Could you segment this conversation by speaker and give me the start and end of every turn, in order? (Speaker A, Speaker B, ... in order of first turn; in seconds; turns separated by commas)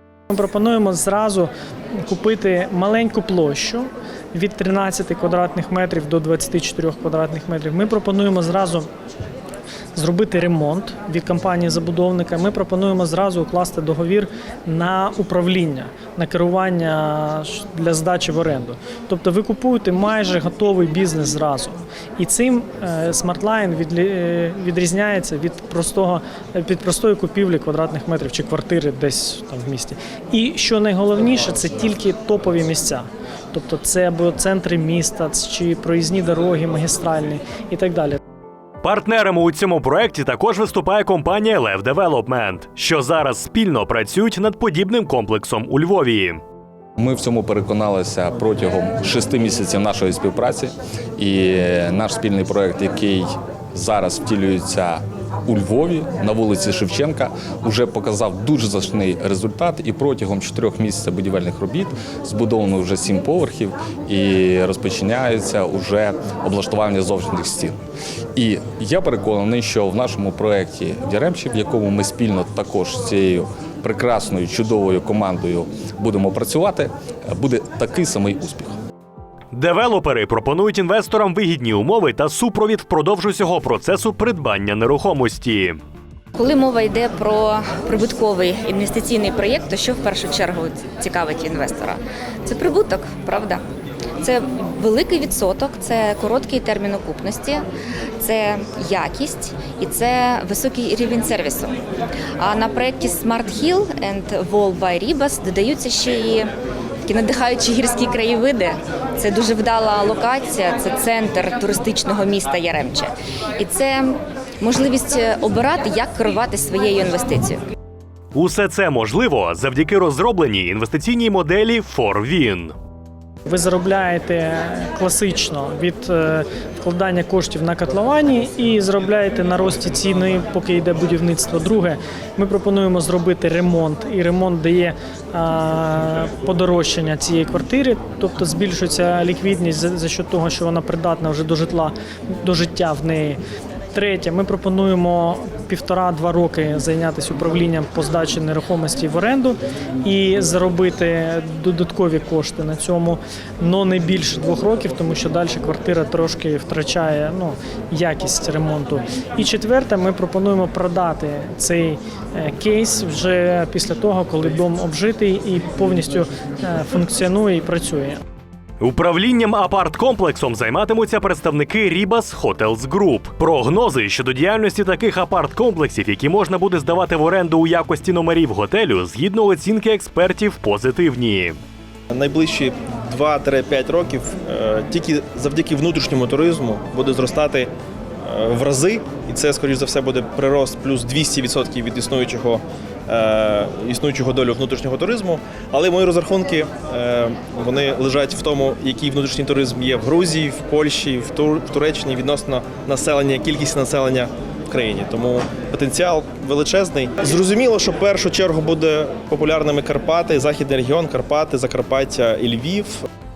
Speaker A: 0.3-1.5, Speaker A: 2.0-8.8, Speaker A: 9.9-38.2, Speaker B: 38.8-46.4, Speaker C: 47.0-67.8, Speaker C: 68.3-78.7, Speaker B: 79.5-85.8, Speaker D: 86.3-93.6, Speaker D: 94.2-97.6, Speaker D: 98.2-101.8, Speaker D: 102.4-106.5, Speaker D: 107.0-117.6, Speaker B: 118.3-122.7, Speaker A: 123.4-143.4, Speaker A: 143.9-168.2, Speaker B: 168.8-181.6, Speaker E: 182.1-187.7, Speaker E: 188.2-213.0